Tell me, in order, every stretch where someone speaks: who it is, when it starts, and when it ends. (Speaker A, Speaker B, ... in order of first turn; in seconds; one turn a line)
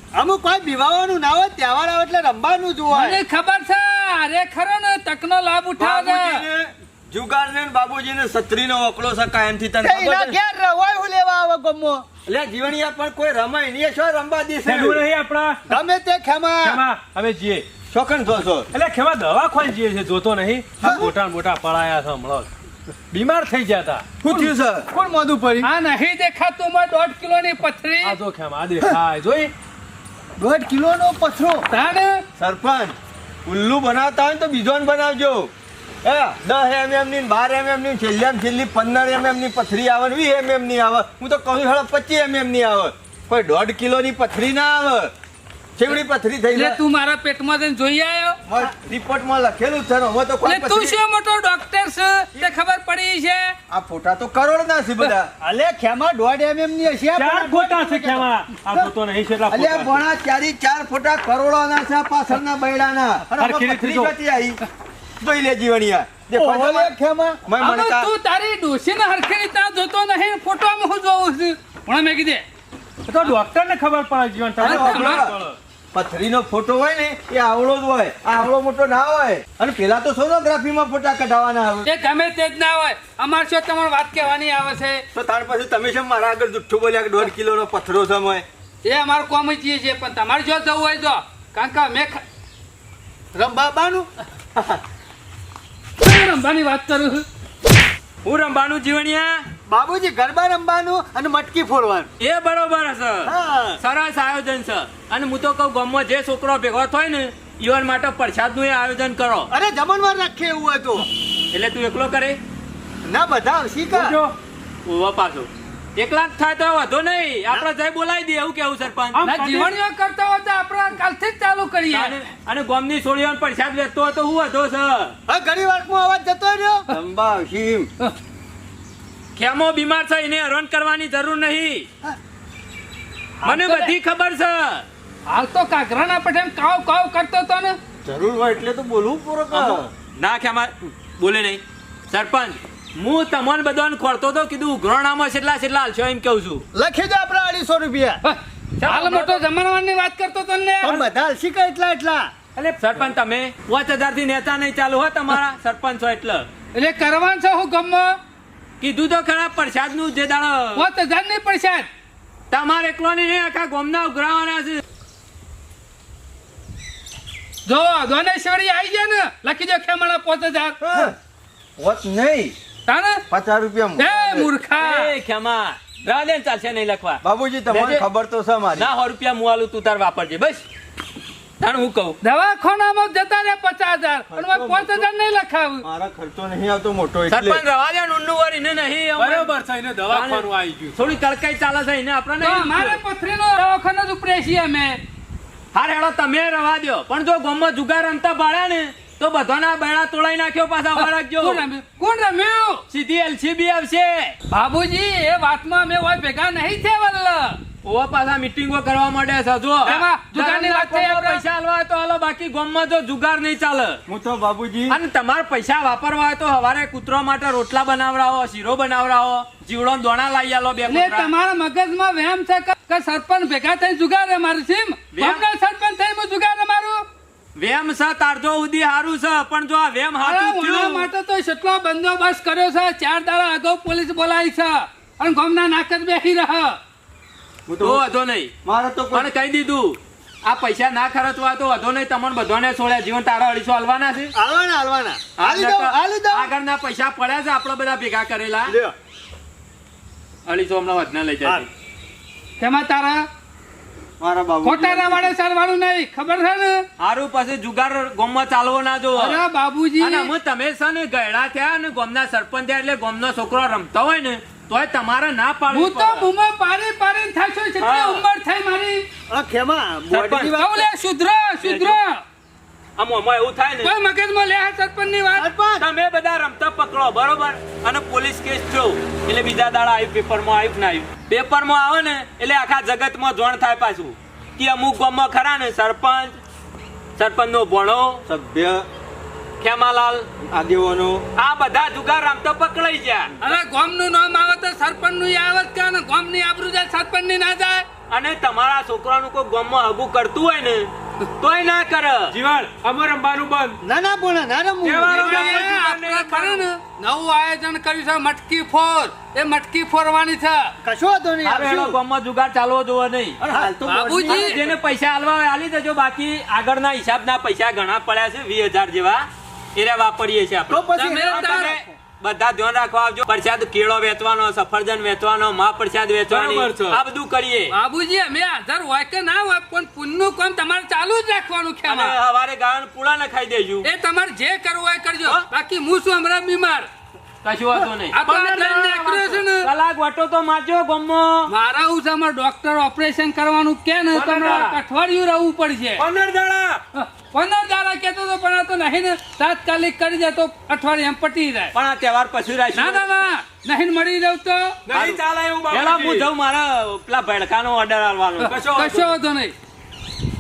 Speaker A: 0.1-3.2
Speaker B: 2.9-6.5
Speaker C: 5.8-10.4
Speaker A: 9.8-12.1
Speaker C: 12.3-15.0
Speaker D: 14.7-15.6
Speaker A: 15.7-16.8
Speaker D: 16.6-17.6
Speaker C: 17.9-18.7
Speaker D: 18.7-22.5
Speaker A: 20.8-21.1
Speaker D: 23.1-24.1
Speaker C: 24.2-24.9
Speaker A: 24.3-25.7
Speaker B: 25.6-28.2
Speaker D: 28.0-29.5
Speaker A: 30.4-31.7
Speaker B: 31.7-32.2
Speaker C: 32.4-35.5
Speaker C: 36.0-45.1
Speaker C: 45.8-46.8
Speaker B: 46.5-48.4
Speaker C: 48.5-51.0
Speaker B: 50.5-53.5
Speaker C: 53.7-55.3
Speaker A: 55.4-58.9
Speaker D: 57.1-60.0
Speaker C: 59.5-64.6
Speaker D: 63.3-64.1
Speaker C: 65.2-66.9
Speaker A: 66.3-67.4
Speaker C: 67.5-68.1
Speaker B: 67.6-72.4
Speaker D: 73.1-75.6
Speaker B: 74.6-75.2
Speaker C: 74.6-75.4
Speaker C: 75.9-81.9
Speaker B: 81.8-85.0
Speaker C: 85.1-88.5
Speaker B: 88.8-92.2
Speaker A: 93.3-94.1
Speaker B: 96.0-97.3
Speaker E: 98.2-99.5
Speaker A: 99.7-102.1
Speaker E: 102.2-109.5
Speaker A: 103.2-103.8
Speaker A: 109.5-111.1
Speaker E: 111.5-112.4
Speaker A: 113.0-114.2
Speaker D: 114.0-114.3
Speaker E: 114.9-119.3
Speaker D: 119.1-119.8
Speaker B: 119.2-122.2
Speaker E: 121.9-125.2
Speaker A: 125.3-126.9
Speaker C: 126.9-127.9
Speaker E: 129.4-131.9
Speaker B: 133.4-133.9
Speaker E: 133.4-134.8
Speaker B: 135.3-137.8
Speaker C: 138.0-139.9
Speaker E: 139.5-146.7
Speaker A: 146.7-148.2
Speaker B: 148.2-151.1
Speaker E: 148.8-149.4
Speaker A: 150.8-152.3
Speaker E: 152.6-156.5
Speaker B: 156.7-158.2
Speaker E: 158.8-160.9
Speaker B: 160.8-161.9
Speaker E: 162.5-164.8
Speaker B: 167.7-170.8
Speaker C: 170.8-171.2
Speaker C: 171.8-172.6
Speaker B: 172.9-173.2
Speaker C: 173.3-174.5
Speaker B: 174.0-175.1
Speaker E: 174.8-177.2
Speaker C: 177.2-178.9
Speaker B: 177.7-178.0
Speaker E: 178.8-180.7
Speaker E: 181.6-182.2
Speaker B: 182.2-185.8
Speaker C: 184.3-185.1
Speaker C: 185.8-187.6
Speaker E: 187.3-189.5
Speaker D: 189.2-191.0
Speaker E: 190.1-193.0
Speaker B: 192.4-195.0
Speaker E: 195.7-201.6
Speaker B: 201.0-202.8
Speaker E: 202.9-204.3
Speaker B: 204.5-207.6
Speaker E: 207.8-214.0
Speaker B: 209.8-211.4
Speaker C: 214.1-215.0
Speaker E: 214.9-221.3
Speaker B: 220.9-227.0
Speaker E: 225.1-225.4
Speaker E: 227.6-231.1
Speaker B: 230.2-236.8
Speaker C: 237.7-238.1
Speaker E: 237.8-238.5
Speaker C: 238.7-239.3
Speaker E: 239.1-244.3
Speaker A: 244.3-246.5
Speaker E: 245.4-248.8
Speaker A: 248.7-248.9
Speaker E: 250.5-251.7
Speaker B: 252.6-253.3
Speaker C: 254.2-255.3
Speaker B: 254.6-256.8
Speaker E: 257.0-259.4
Speaker B: 259.1-260.3
Speaker E: 260.0-266.3
Speaker B: 265.7-269.0
Speaker E: 267.8-268.2
Speaker A: 269.3-270.9
Speaker E: 270.1-270.6
Speaker B: 270.6-272.2
Speaker E: 271.6-272.0
Speaker E: 273.0-273.9
Speaker B: 273.8-275.5
Speaker A: 275.4-275.9
Speaker E: 275.8-286.4
Speaker E: 287.2-288.2
Speaker C: 288.3-288.9
Speaker E: 289.6-290.3
Speaker C: 290.5-291.2
Speaker E: 291.4-293.3
Speaker B: 293.4-297.9
Speaker E: 298.1-302.4
Speaker D: 302.3-303.8
Speaker A: 303.8-305.7
Speaker D: 304.8-306.6
Speaker B: 305.1-310.7
Speaker E: 305.2-305.8
Speaker A: 310.8-312.0
Speaker E: 311.4-313.4
Speaker C: 313.4-314.7
Speaker B: 313.9-314.6
Speaker E: 314.3-327.7
Speaker A: 320.7-321.9
Speaker B: 321.0-321.7
Speaker D: 326.3-327.0
Speaker B: 327.7-332.2
Speaker E: 331.9-333.9
Speaker B: 333.8-336.9
Speaker E: 337.4-341.5
Speaker B: 338.1-339.7
Speaker B: 341.5-346.1
Speaker D: 344.1-344.8
Speaker D: 346.0-346.8
Speaker B: 346.9-351.7
Speaker E: 351.8-353.0
Speaker B: 352.7-354.8
Speaker D: 354.9-356.3
Speaker E: 354.9-358.7
Speaker D: 358.4-359.2
Speaker B: 358.7-359.5